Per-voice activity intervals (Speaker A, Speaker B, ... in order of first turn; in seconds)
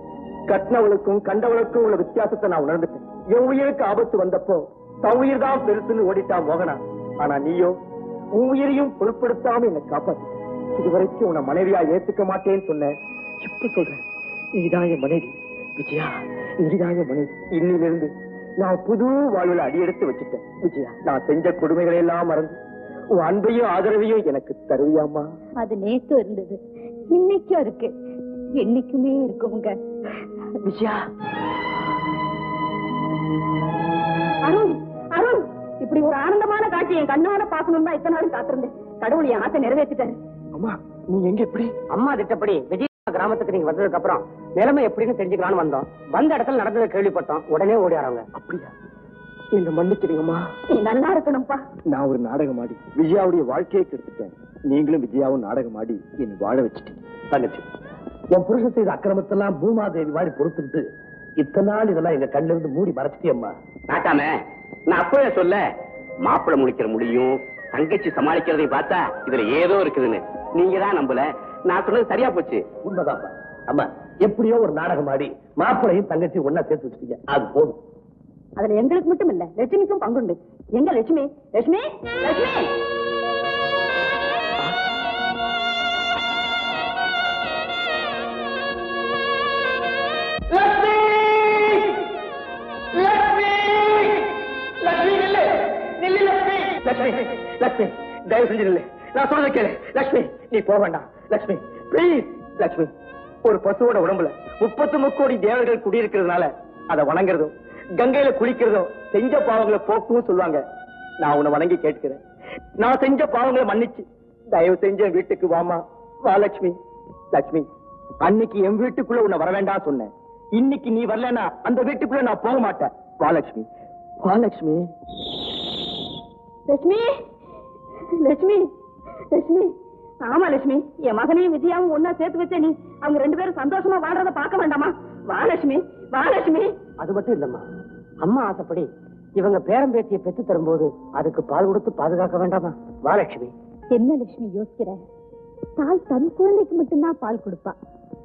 Speaker A: 0.5-7.8, 8.4-14.0, 14.6-22.6, 23.2-25.3, 30.6-31.0, 40.5-41.7, 48.4-48.7, 49.5-50.5, 51.9-57.0, 90.5-92.1, 92.9-102.9, 103.5-110.6, 111.2-112.2, 112.8-116.8, 117.3-117.7, 118.2-123.7, 124.2-124.9
Speaker B: 25.6-26.6, 27.1-27.9, 28.6-29.8, 34.4-40.2, 50.7-51.6, 78.6-82.7, 126.7-127.1, 128.2-128.7, 129.3-129.7, 130.2-136.8, 143.9-145.0, 145.8-147.8
Speaker C: 41.9-48.3, 137.0-137.7, 138.2-143.5
Speaker D: 57.3-57.6, 58.3-60.9, 61.4-63.5, 72.8-77.8
Speaker E: 63.9-64.4, 64.9-65.6, 66.2-72.7